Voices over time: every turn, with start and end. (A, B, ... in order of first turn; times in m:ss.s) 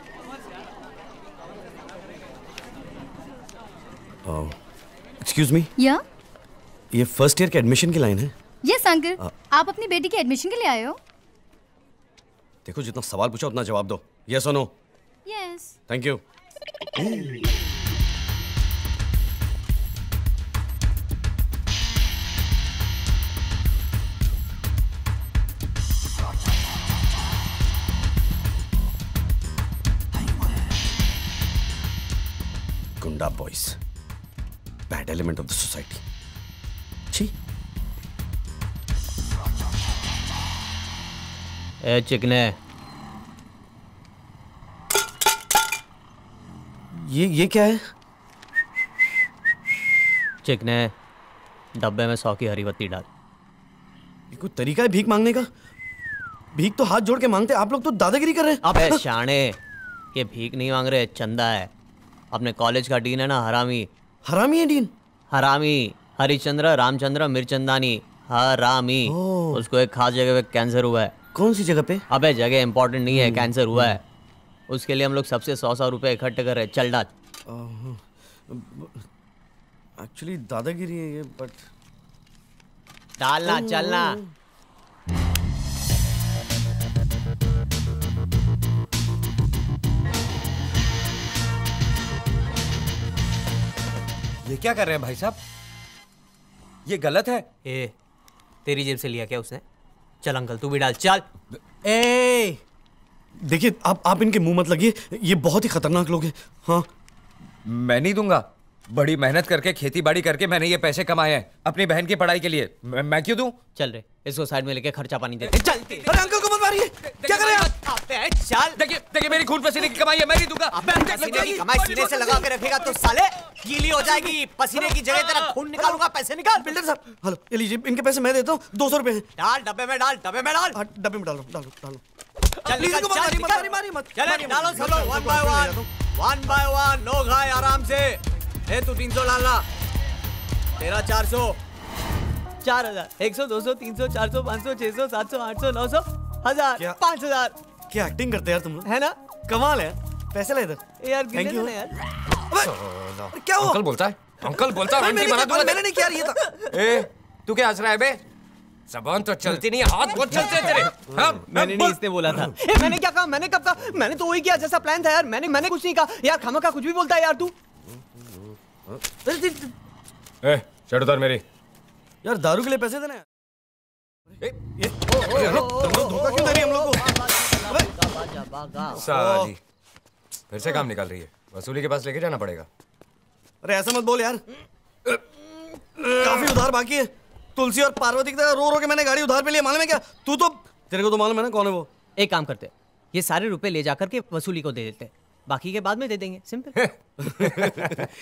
0:04.2-0:04.5 A
0:05.2-0:05.7 A
0:05.8-0:06.0 B
0:06.9-0:08.3 A
0:08.6-0:11.0 B
0:12.6-0:14.7 A
0:15.3-0:15.7 B
0:15.9-0:16.2 A
0:17.0-0:17.3 A
0:33.0-0:33.7 A
0:34.9-0:36.0 A
0:41.8-0:42.5 C
0:46.9-0:47.8 A
0:50.4-0:50.9 C
0:51.8-0:53.0 C
0:54.3-0:55.5 A
0:56.5-0:59.0 A
0:58.6-0:59.6 C
1:00.1-1:01.7 C
1:02.3-1:03.9 C
1:04.2-1:04.9 A
1:05.3-1:11.1 C
1:09.0-1:09.6 A
1:11.3-1:12.0 A
1:12.1-1:14.0 C
1:13.2-1:13.9 A
1:14.7-1:17.1 C
1:17.5-1:18.9 A
1:20.0-1:21.6 A
1:23.2-1:24.2 C
1:23.5-1:24.2 A
1:34.4-1:35.4 D
1:36.8-1:37.4 D
1:37.6-1:37.9 C
1:38.6-1:39.6 C
1:40.2-1:41.2 C
1:41.8-1:42.6 C
1:43.4-1:46.9 A
1:47.6-1:53.5 D
1:53.8-1:56.2 C
1:56.0-1:57.7 A
1:57.2-1:57.7 D
1:57.4-1:58.8 C
1:58.8-2:01.6 D
2:00.7-2:06.7 C
2:01.1-2:02.4 A
2:06.6-2:09.3 A
2:09.4-2:10.8 C
2:10.7-2:12.0 A
2:12.6-2:19.6 C
2:12.7-2:15.9 A
2:20.8-2:21.6 C
2:22.6-2:27.6 C
2:27.9-2:28.9 A
2:28.8-2:29.2 C
2:29.5-2:30.8 A
2:31.0-2:32.0 C
2:31.3-2:31.7 A
2:32.6-2:36.0 D
2:33.3-2:33.8 A
2:34.8-2:36.4 A
2:36.7-2:38.2 D
2:38.9-2:41.4 D
2:41.1-2:42.0 A
2:41.5-2:47.5 C
2:48.9-2:49.7 A
2:50.4-2:51.4 D
2:52.2-2:53.2 A
2:54.8-2:57.1 A
2:55.1-2:59.0 C
2:55.3-2:55.7 D
2:59.0-2:59.5 A
2:59.0-2:59.6 D
3:00.5-3:02.7 D
3:03.6-3:04.4 A
3:06.0-3:11.9 A
3:12.2-3:16.8 C
3:17.4-3:17.9 A
3:17.4-3:17.9 D